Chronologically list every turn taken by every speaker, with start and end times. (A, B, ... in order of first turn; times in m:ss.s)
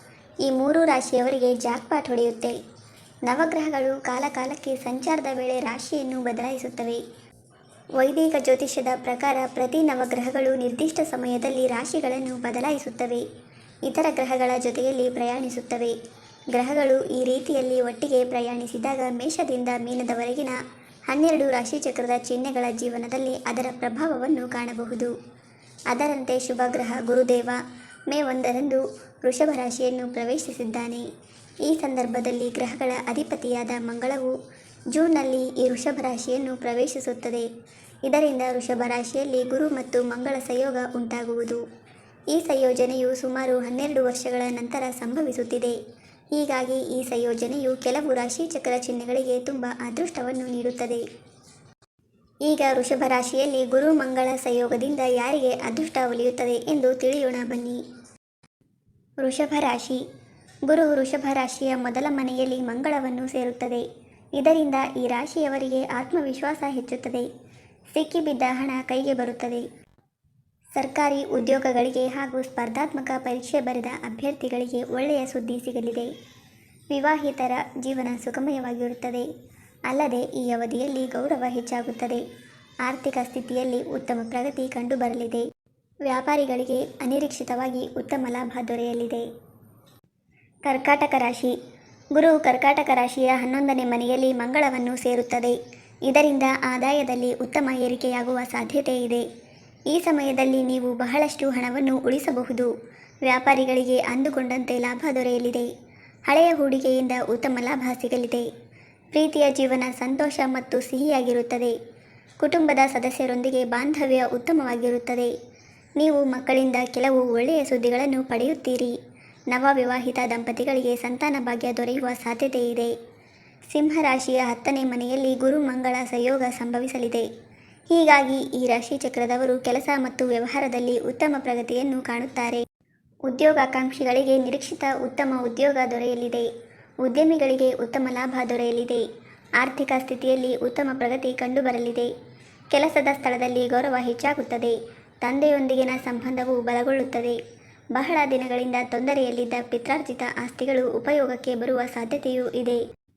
0:00.4-0:02.6 A
0:03.2-0:07.0 A
0:08.0-0:13.2 A
0:13.8-0:16.0 A
0:16.5-0:25.1 A
0:25.9-0:31.1 A
0:31.6-0:34.4 A
0:34.9-0:37.5 A
0:38.0-0:41.6 A
0:42.3-0:45.8 A
0:46.3-0:51.0 A
0:52.4-0:57.8 A
0:59.2-1:00.0 A
1:00.6-1:07.3 A
1:07.9-1:09.6 A
1:10.8-1:16.1 A
1:16.9-1:19.3 A
1:19.9-1:22.2 A
1:22.8-1:25.5 A
1:26.0-1:29.2 A
1:30.6-1:31.6 A
1:32.1-1:39.2 A
1:39.9-1:42.7 A
1:43.2-1:45.7 A
1:46.3-1:48.5 A
1:49.1-1:51.8 A
1:52.4-1:55.3 A
1:56.0-1:58.9 A
1:59.5-2:02.9 A
2:03.7-2:07.3 A
2:07.9-2:12.6 A
2:13.3-2:16.5 A
2:17.0-2:19.0 A
2:19.6-2:22.1 A
2:22.7-2:27.4 A
2:27.9-2:32.8 A